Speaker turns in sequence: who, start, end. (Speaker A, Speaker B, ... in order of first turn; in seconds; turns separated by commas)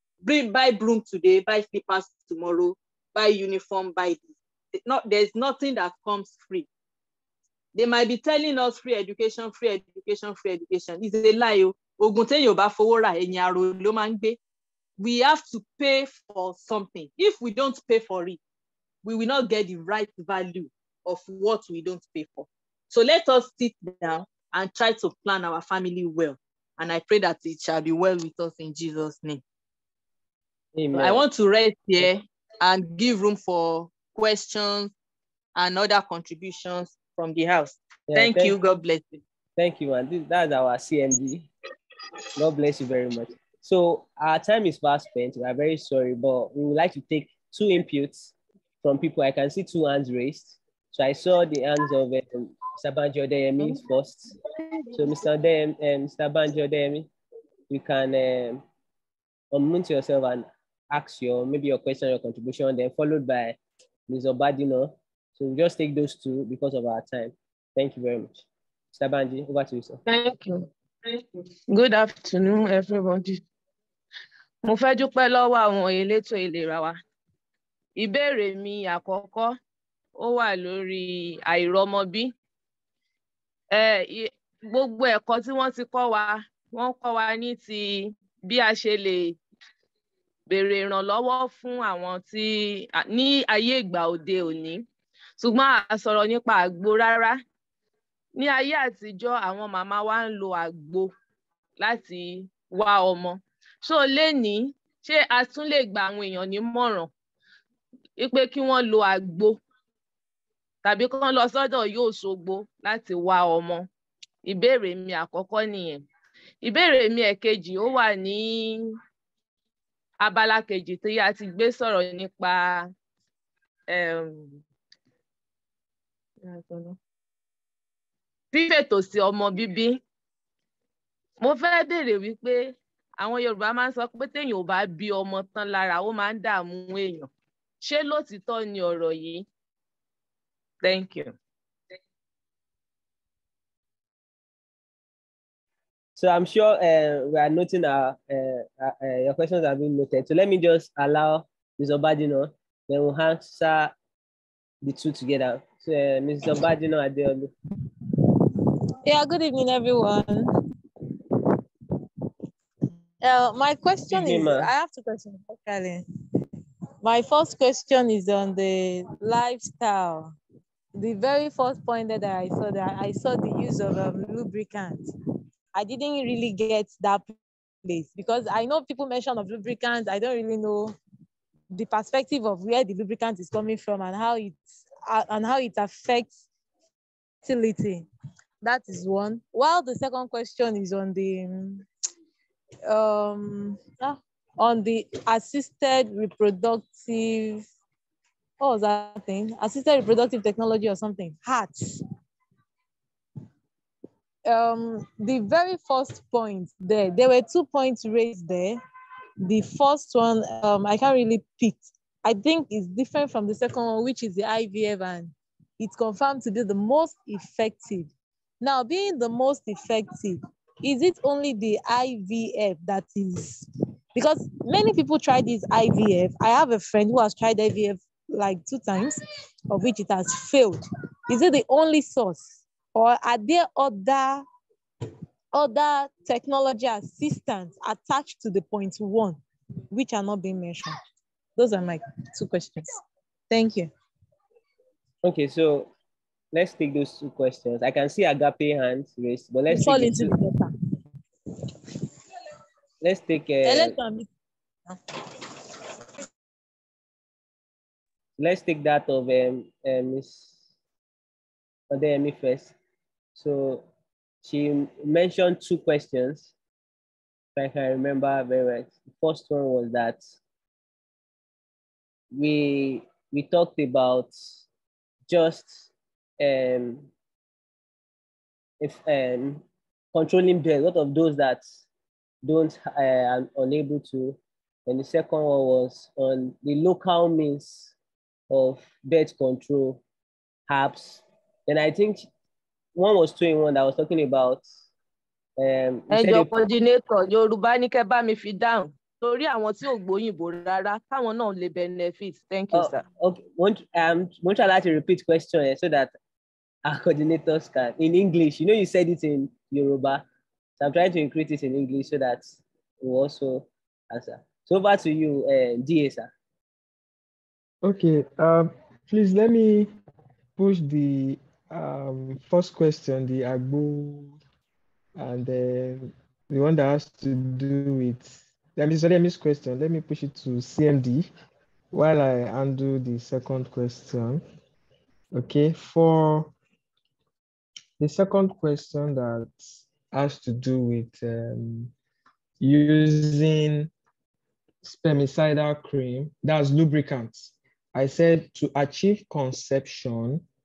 Speaker A: 0.2-6.7, Speaker A: 7.7-14.4, Speaker A: 15.0-18.4, Speaker A: 19.0-29.4, Speaker B: 30.7-31.2, Speaker A: 30.9-34.9, Speaker A: 35.5-39.2, Speaker B: 38.1-38.6, Speaker B: 39.6-41.5, Speaker B: 42.4-54.3, Speaker B: 54.9-57.1, Speaker B: 57.7-58.6, Speaker B: 59.5-70.0, Speaker C: 70.0-73.4, Speaker C: 74.6-77.0, Speaker C: 78.0-79.6, Speaker C: 80.2-82.3, Speaker C: 83.7-89.4, Speaker C: 90.5-94.8, Speaker C: 95.4-97.4, Speaker C: 98.3-101.1, Speaker C: 101.8-107.1, Speaker C: 108.2-109.6, Speaker C: 110.8-113.9, Speaker C: 114.4-116.0, Speaker C: 116.6-118.9, Speaker C: 120.2-122.9, Speaker C: 123.9-124.6, Speaker C: 126.4-127.0, Speaker C: 128.5-130.0, Speaker C: 131.4-137.3, Speaker C: 137.8-139.4, Speaker C: 140.8-141.3, Speaker B: 146.2-153.9, Speaker B: 154.8-157.5, Speaker D: 159.0-160.5, Speaker D: 163.2-166.0, Speaker B: 164.1-164.7, Speaker D: 167.0-170.3, Speaker D: 170.9-175.0, Speaker D: 175.7-177.3, Speaker D: 177.8-180.9, Speaker D: 181.7-186.3, Speaker D: 187.4-188.1, Speaker D: 188.6-191.8, Speaker D: 192.9-197.6, Speaker D: 198.6-201.8, Speaker D: 204.4-208.8, Speaker D: 209.4-218.1, Speaker D: 218.6-229.2, Speaker D: 229.7-234.4, Speaker D: 235.5-239.4, Speaker D: 239.9-240.9, Speaker D: 241.6-242.8, Speaker D: 243.5-243.9, Speaker B: 245.2-245.9, Speaker B: 246.5-250.3, Speaker D: 249.7-250.7, Speaker B: 253.0-254.0, Speaker D: 253.6-254.3, Speaker B: 258.4-260.5, Speaker B: 261.9-262.7, Speaker B: 263.3-263.9, Speaker B: 264.4-266.5, Speaker B: 267.6-270.2, Speaker B: 272.3-274.6, Speaker B: 275.3-277.1, Speaker B: 278.8-281.6, Speaker B: 282.4-287.9, Speaker B: 288.5-290.0, Speaker B: 290.7-292.3, Speaker B: 292.9-294.6, Speaker B: 295.6-296.5, Speaker C: 296.1-303.0, Speaker B: 302.7-306.1, Speaker B: 306.8-310.2, Speaker B: 310.8-316.3, Speaker E: 317.8-319.9, Speaker E: 320.6-324.4, Speaker E: 325.1-331.3, Speaker E: 331.9-334.4, Speaker E: 335.3-336.5, Speaker E: 338.0-339.6, Speaker E: 340.1-341.9, Speaker E: 342.6-343.9, Speaker E: 344.8-350.4